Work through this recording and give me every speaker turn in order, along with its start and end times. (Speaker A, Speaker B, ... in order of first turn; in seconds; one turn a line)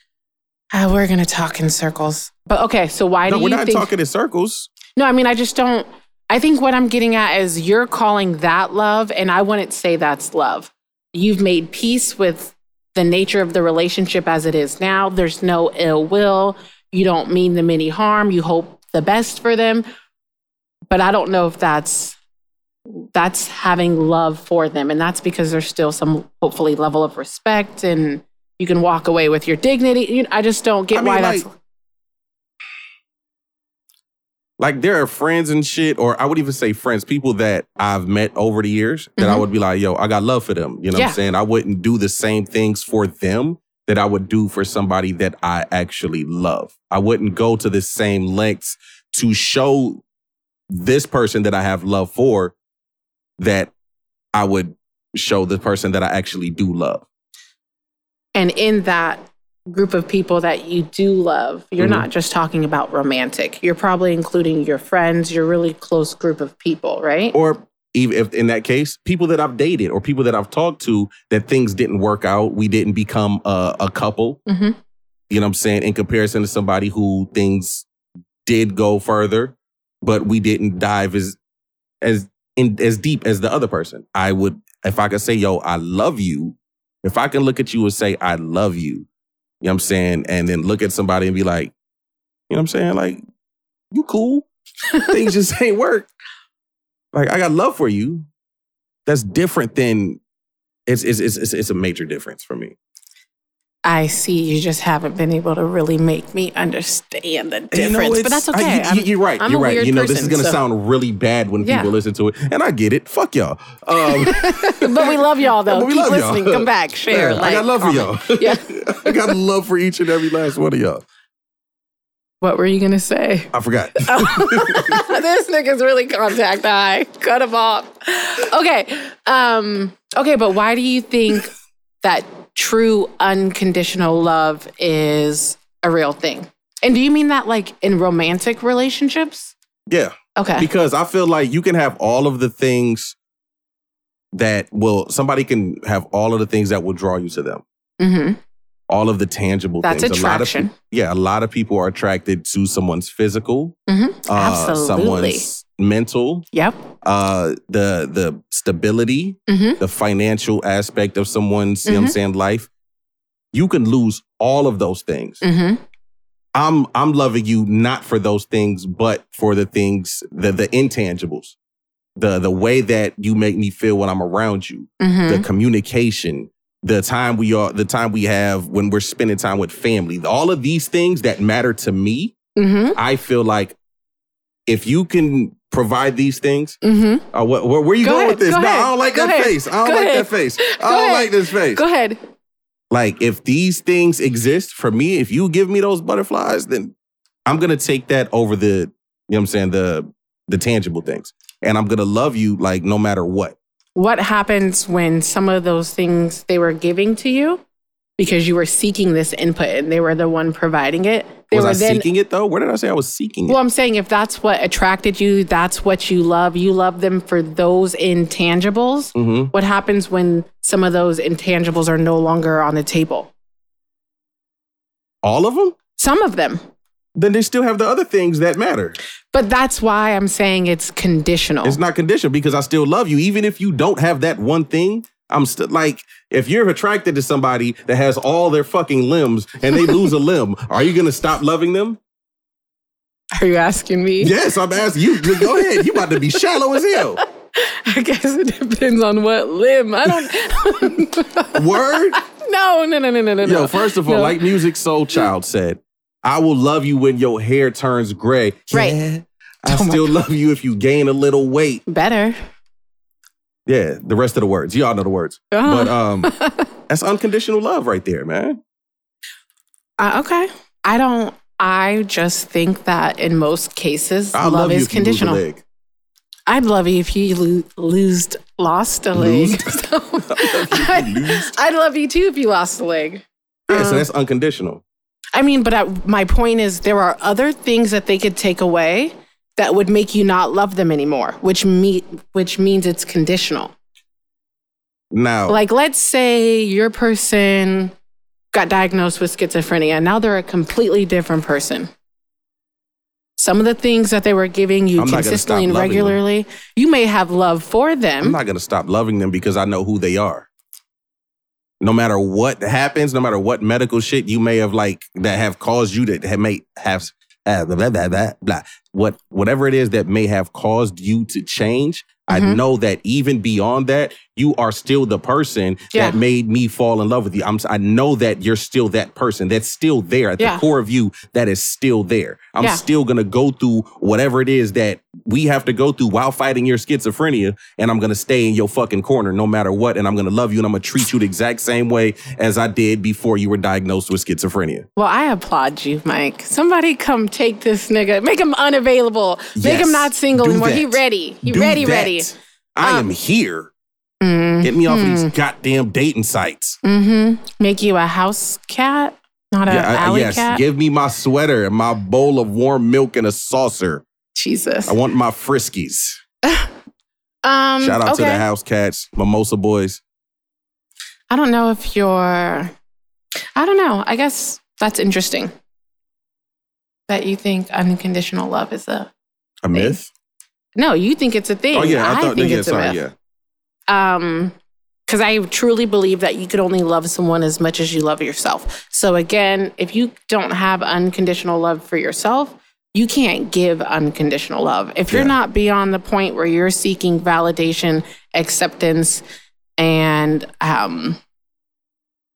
Speaker A: 0.7-3.9
Speaker B: 3.3-4.7
Speaker A: 4.9-19.9
Speaker A: 20.9-22.2
Speaker A: 22.9-31.5
Speaker B: 30.9-31.5
Speaker B: 34.6-50.0
Speaker A: 39.2-39.5
Speaker B: 50.7-52.5
Speaker B: 53.4-53.7
Speaker B: 54.4-57.0
Speaker A: 58.4-67.4
Speaker B: 61.8-62.1
Speaker B: 67.3-74.4
Speaker A: 74.5-74.8
Speaker B: 75.3-77.9
Speaker B: 78.5-81.4
Speaker B: 82.0-89.1
Speaker B: 89.6-91.7
Speaker B: 92.5-93.2
Speaker B: 93.9-94.5
Speaker B: 95.1-96.1
Speaker B: 97.1-98.3
Speaker B: 99.1-100.2
Speaker B: 100.9-102.8
Speaker A: 103.8-110.6
Speaker B: 107.7-115.2
Speaker A: 111.6-111.9
Speaker A: 114.1-119.4
Speaker B: 115.7-121.0
Speaker A: 122.4-131.5
Speaker B: 123.5-125.0
Speaker A: 132.0-139.5
Speaker B: 139.9-143.2
Speaker A: 140.4-140.7
Speaker B: 144.3-147.6
Speaker A: 148.0-148.4
Speaker B: 148.9-156.4
Speaker A: 149.8-150.7
Speaker A: 153.9-155.5
Speaker A: 156.5-156.9
Speaker B: 157.0-162.7
Speaker A: 159.5-159.8
Speaker A: 161.9-162.2
Speaker B: 163.5-165.4
Speaker A: 165.4-165.8
Speaker B: 166.5-171.6
Speaker B: 172.2-182.3
Speaker A: 175.0-175.5
Speaker A: 182.6-183.0
Speaker B: 182.9-183.8
Speaker B: 184.7-186.8
Speaker A: 186.8-187.2
Speaker B: 187.3-191.8
Speaker A: 188.0-192.2
Speaker B: 192.9-196.9
Speaker B: 197.5-203.6
Speaker A: 204.0-207.6
Speaker A: 208.2-212.1
Speaker B: 211.5-213.6
Speaker A: 213.5-223.3
Speaker B: 219.2-219.5
Speaker B: 225.2-225.8
Speaker A: 226.0-226.6
Speaker B: 227.2-229.0
Speaker A: 229.3-231.8
Speaker B: 231.6-242.0
Speaker A: 239.7-240.1
Speaker A: 243.3-244.3
Speaker B: 244.2-247.2
Speaker A: 245.2-246.2
Speaker A: 247.6-254.5
Speaker B: 251.5-252.2
Speaker B: 253.4-261.8
Speaker A: 258.7-259.0
Speaker A: 259.7-260.1
Speaker A: 261.9-262.4
Speaker B: 263.7-266.3
Speaker A: 265.5-266.6
Speaker B: 266.9-268.6
Speaker A: 270.0-275.4
Speaker B: 274.3-275.6
Speaker A: 276.5-284.1
Speaker B: 279.1-279.8
Speaker B: 280.3-281.5
Speaker B: 283.7-284.8
Speaker A: 285.3-293.7
Speaker B: 295.1-295.6
Speaker A: 295.5-297.9
Speaker A: 298.5-301.9
Speaker A: 303.4-308.4
Speaker B: 305.0-306.2
Speaker B: 308.2-310.5
Speaker B: 311.8-344.9
Speaker A: 322.3-322.6
Speaker A: 325.9-326.2
Speaker A: 330.4-330.6
Speaker A: 345.0-352.3
Speaker B: 349.6-353.7
Speaker A: 354.2-355.3
Speaker B: 354.6-356.8
Speaker A: 356.8-360.6
Speaker B: 359.7-364.1
Speaker A: 364.4-365.0
Speaker B: 364.9-366.2
Speaker A: 367.4-368.5
Speaker B: 367.8-370.0
Speaker A: 371.3-372.7
Speaker A: 373.6-375.5
Speaker A: 377.1-379.1
Speaker B: 379.6-380.1
Speaker A: 379.7-380.0
Speaker A: 380.8-383.0
Speaker B: 381.7-383.1
Speaker A: 383.9-384.6
Speaker A: 385.1-399.2
Speaker A: 399.8-401.2